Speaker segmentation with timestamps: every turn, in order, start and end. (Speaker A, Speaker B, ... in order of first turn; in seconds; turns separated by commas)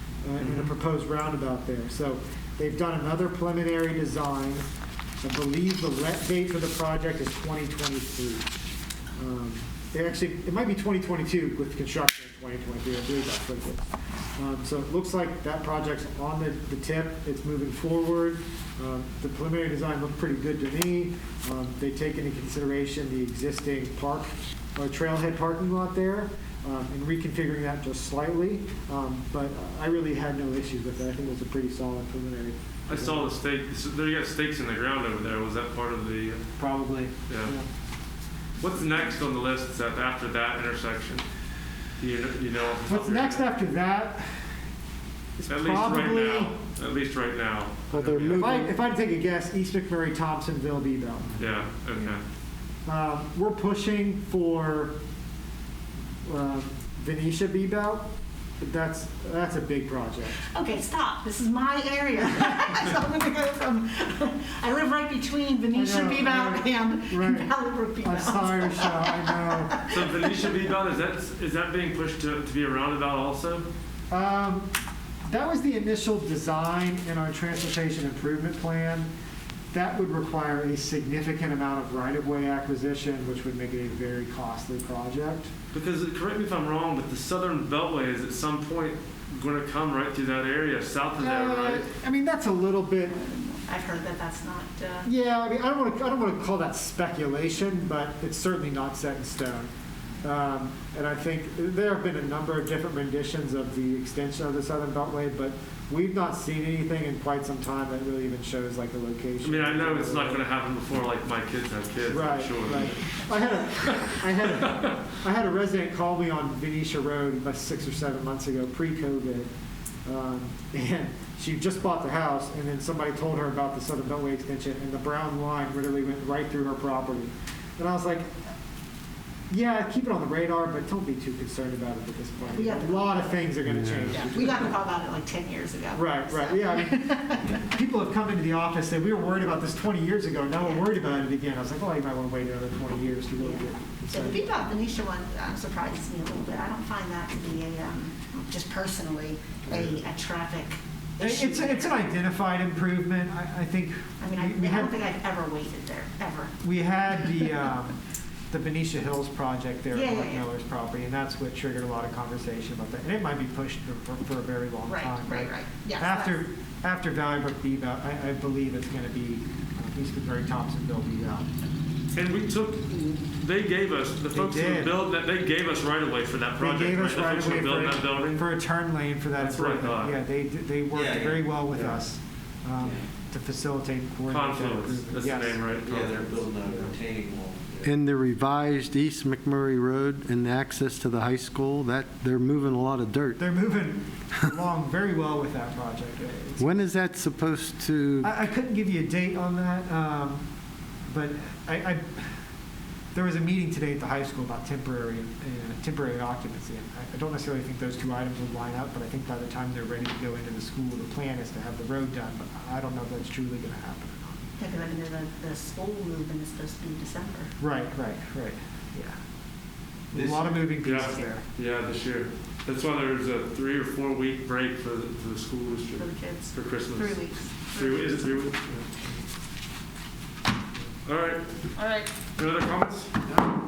Speaker A: 0.2-4.7, Speaker A: 5.2-8.5, Speaker A: 9.2-13.8, Speaker A: 14.4-33.3, Speaker B: 32.9-36.4, Speaker A: 36.6-37.7, Speaker B: 37.3-37.5, Speaker B: 38.6-41.2, Speaker B: 42.0-43.5, Speaker A: 42.9-44.5, Speaker A: 45.4-46.5, Speaker B: 45.5-48.5, Speaker C: 47.9-48.8, Speaker A: 48.3-51.4, Speaker B: 51.4-52.2, Speaker A: 52.9-54.9, Speaker A: 56.2-60.4, Speaker D: 60.5-70.5, Speaker A: 65.7-69.8, Speaker B: 69.9-73.7, Speaker A: 74.1-74.7, Speaker A: 75.3-79.1, Speaker A: 79.7-85.5, Speaker B: 85.7-91.9, Speaker A: 91.2-93.2, Speaker D: 93.1-95.1, Speaker A: 95.0-99.7, Speaker A: 100.2-110.4, Speaker B: 109.4-113.0, Speaker A: 112.1-119.5, Speaker B: 113.8-114.1, Speaker A: 120.1-128.5, Speaker A: 129.5-134.6, Speaker D: 132.5-133.5, Speaker C: 133.7-134.2, Speaker D: 134.1-137.7, Speaker A: 135.9-144.5, Speaker D: 140.6-140.9, Speaker D: 143.4-152.1, Speaker A: 149.7-150.0, Speaker A: 151.2-154.9, Speaker D: 154.2-156.6, Speaker A: 156.6-158.0, Speaker A: 158.5-171.5, Speaker D: 159.9-160.4, Speaker D: 164.9-166.4, Speaker B: 172.1-178.5, Speaker A: 174.3-174.9, Speaker A: 176.6-186.9, Speaker B: 179.4-180.2, Speaker E: 180.9-181.9, Speaker E: 182.8-183.0, Speaker B: 184.3-186.1, Speaker E: 185.8-187.9, Speaker C: 187.8-193.4, Speaker A: 193.4-196.8, Speaker C: 196.6-198.3, Speaker A: 198.2-200.4, Speaker A: 201.1-202.3, Speaker A: 203.1-214.5, Speaker D: 214.6-217.5, Speaker A: 217.6-219.2, Speaker E: 220.1-220.7, Speaker A: 220.1-221.4, Speaker B: 220.8-228.7, Speaker D: 226.0-228.4, Speaker B: 231.1-231.4, Speaker D: 231.8-232.1, Speaker B: 232.3-233.2